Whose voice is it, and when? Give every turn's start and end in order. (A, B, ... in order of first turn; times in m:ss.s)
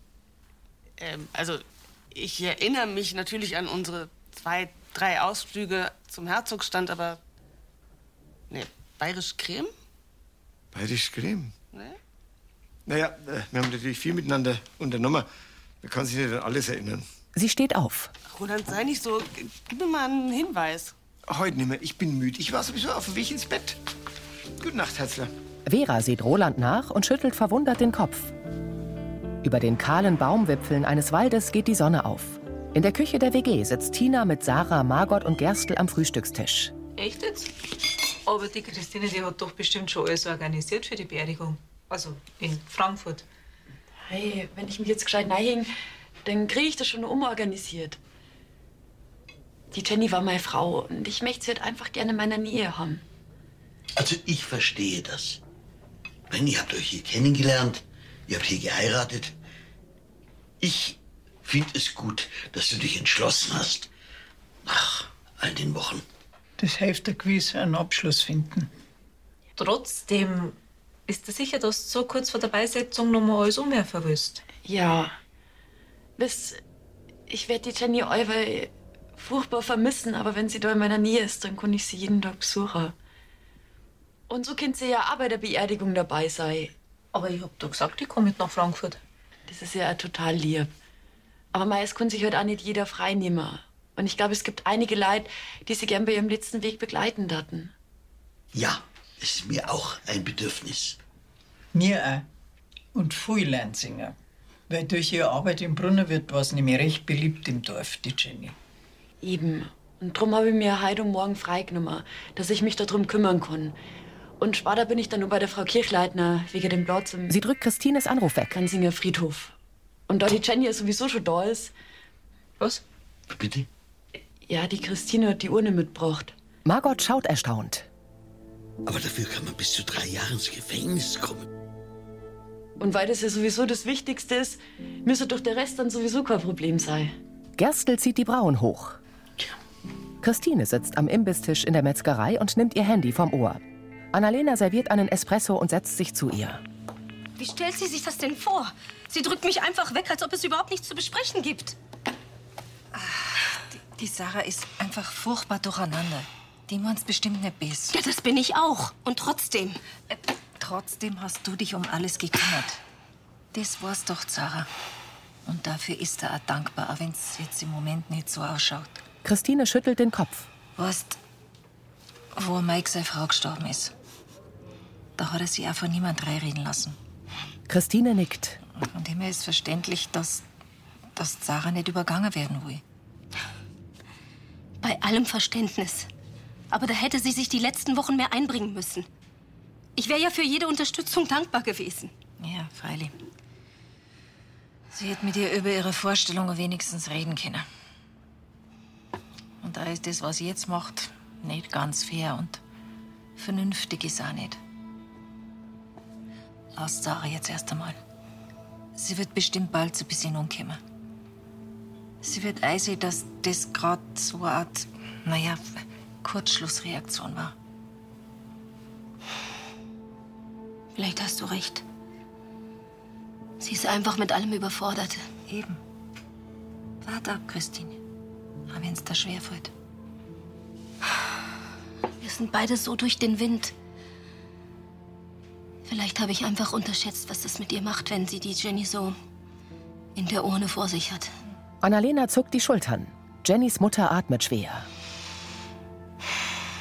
0:01.0-0:07.2 A
0:08.5-0:09.7 A
0:10.7-0:11.5 B
0:12.8-0:15.3 B
0:15.8-0:17.0 B
0:17.3-0:18.1 C
0:18.3-0:20.9 A
0:21.3-0:23.8 B
0:24.6-0:25.3 B
0:25.6-0:28.3 C
0:29.4-0:36.7 C
0:36.9-0:37.5 D
0:38.3-0:43.2 D
0:44.1-0:45.7 E
0:46.2-0:48.0 E
0:49.7-0:53.0 E
0:54.0-0:55.4 F
0:56.3-0:59.3 F
1:00.6-1:03.9 F
1:04.6-1:06.0 F
1:06.6-1:08.7 G
1:09.6-1:14.4 D
1:14.6-1:15.1 E
1:16.2-1:16.6 E
1:17.3-1:22.9 E
1:24.3-1:26.7 E
1:27.1-1:29.0 D
1:29.5-1:30.7 E
1:31.5-1:37.7 E
1:38.5-1:41.0 F
1:41.7-1:42.2 G
1:42.9-1:44.1 G
1:44.7-1:48.5 G
1:49.2-1:53.8 E
1:54.4-1:57.4 E
1:57.3-1:58.6 C
1:58.5-1:59.5 E
2:00.1-2:01.7 E
2:03.3-2:03.7 F
2:04.5-2:06.3 E
2:06.6-2:07.9 C
2:08.8-2:11.4 F
2:12.8-2:17.1 E
2:17.6-2:19.0 C
2:20.2-2:23.6 C
2:24.1-2:26.6 C
2:27.4-2:31.8 H
2:32.9-2:38.0 I
2:37.9-2:39.8 H
2:40.1-2:42.8 I
2:43.5-2:44.7 I
2:45.4-2:49.0 I
2:49.2-2:50.5 C
2:50.8-2:51.2 I
2:52.3-2:53.9 I
2:55.2-2:57.0 I
2:57.7-2:58.6 C
2:58.7-3:00.4 I
3:01.2-3:02.8 I
3:04.8-3:06.1 H
3:06.7-3:09.1 H
3:10.0-3:12.1 H
3:12.4-3:13.1 I
3:14.9-3:17.6 I
3:19.6-3:22.6 I
3:23.4-3:24.6 I
3:26.8-3:28.0 I
3:29.0-3:30.8 I
3:32.2-3:37.5 I
3:40.9-3:41.8 H
3:43.6-3:45.2 H
3:45.5-3:45.8 I
3:47.0-3:48.0 I
3:48.7-3:49.7 I
3:52.2-3:53.7 H
3:55.8-3:59.2 H
4:00.1-4:01.3 H
4:01.8-4:04.9 C